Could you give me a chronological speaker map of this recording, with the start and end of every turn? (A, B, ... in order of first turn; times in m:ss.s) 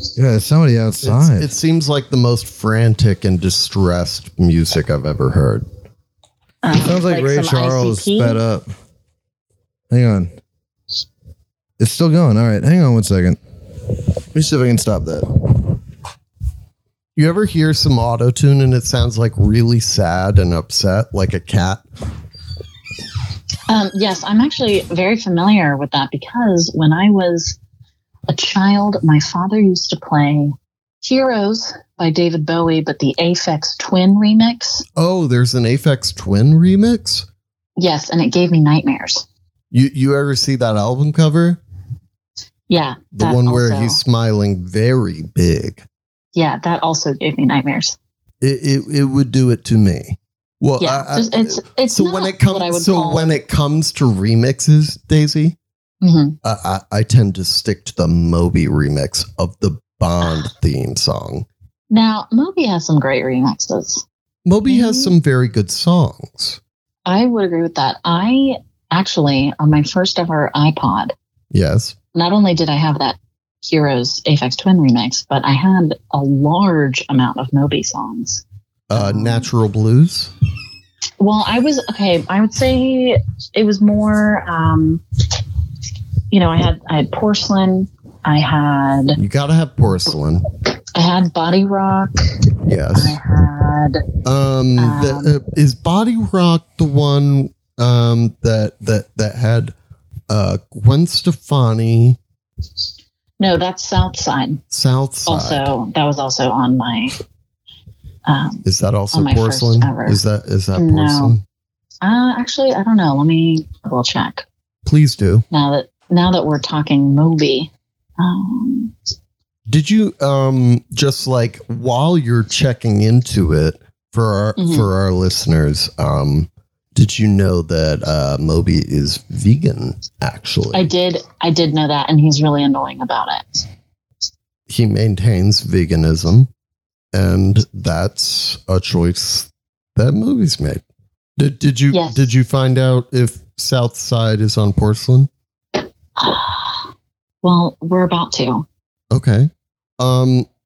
0:00.2-0:01.5 A
0:01.0-0:05.7 B
0:06.6-0:08.4 C
0:06.8-0:08.7 A
0:09.9-0:10.3 A
0:11.8-0:13.4 A
0:14.3-0:15.4 A
0:17.2-0:21.8 B
0:23.7-0:27.6 C
0:28.3-0:34.8 C
0:35.0-0:37.3 B
0:37.8-0:39.3 C
0:39.7-0:41.6 B
0:42.7-0:44.0 C
0:43.2-0:45.8 B
0:46.4-0:48.0 C
0:48.4-0:55.6 B
0:50.8-0:53.4 C
0:56.0-0:56.4 C
0:56.4-1:01.5 B
1:01.9-1:04.0 C
1:04.4-1:06.6 B
1:04.7-1:05.1 C
1:07.1-1:11.1 C
1:11.5-1:12.0 B
1:12.1-1:19.5 C
1:18.9-1:20.3 B
1:21.2-1:25.0 C
1:26.3-1:29.2 C
1:29.2-1:30.4 B
1:30.9-1:32.2 C
1:32.7-1:33.2 B
1:32.9-1:34.0 C
1:34.2-1:39.7 B
1:34.8-1:35.4 C
1:40.3-1:42.2 B
1:43.4-1:44.6 C
1:44.7-1:45.7 B
1:45.3-1:47.2 C
1:48.3-1:50.2 C
1:48.6-1:51.4 B
1:50.8-1:51.4 C
1:52.0-1:54.4 C
1:54.8-1:55.4 B
1:55.5-1:58.9 C
1:59.7-2:10.9 B
2:04.6-2:04.9 C
2:10.7-2:13.7 C
2:14.7-2:16.5 B
2:17.1-2:20.8 B
2:21.4-2:25.3 B
2:21.9-2:22.3 C
2:26.2-2:26.9 C
2:27.4-2:28.7 C
2:29.1-2:30.5 B